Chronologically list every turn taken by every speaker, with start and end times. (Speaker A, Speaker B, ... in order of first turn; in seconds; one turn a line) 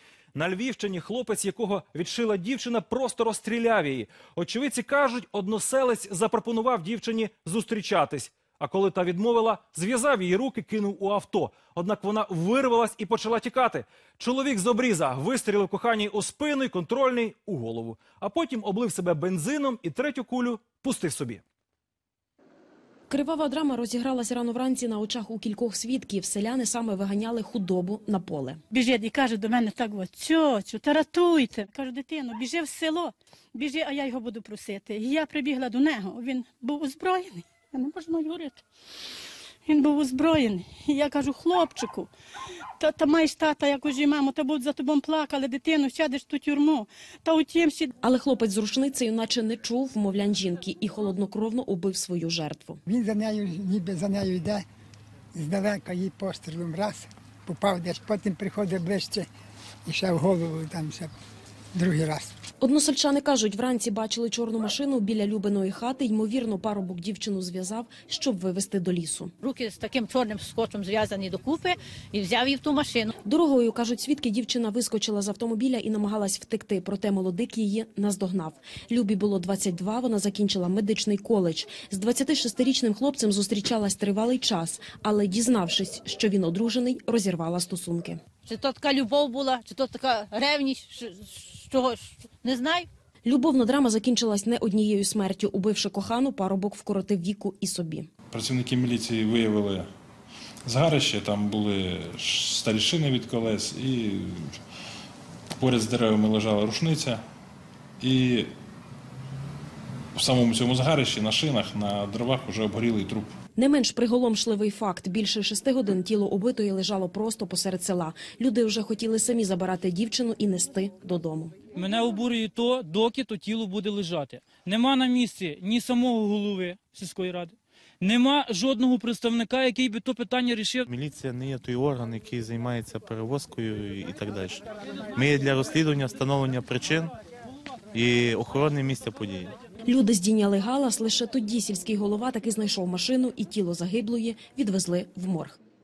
Speaker A: 0.3-21.4
Speaker B: 23.1-28.6
Speaker C: 28.7-38.6
Speaker C: 39.6-42.1
Speaker C: 42.8-47.9
Speaker B: 48.0-52.8
Speaker D: 52.9-54.6
Speaker D: 55.3-59.3
Speaker D: 59.9-61.1
Speaker D: 61.7-62.3
Speaker B: 62.6-69.3
Speaker E: 69.4-73.1
Speaker B: 73.2-88.2
Speaker E: 88.5-92.9
Speaker B: 93.2-98.1
Speaker F: 98.3-99.9
Speaker F: 100.6-104.6
Speaker F: 105.5-107.2
Speaker F: 108.0-108.5
Speaker F: 110.1-113.4
Speaker B: 113.6-121.5
Speaker G: 121.8-130.8
Speaker F: 124.4-124.7
Speaker H: 130.9-134.6
Speaker H: 135.2-137.1
Speaker H: 137.9-139.5
Speaker B: 139.9-145.6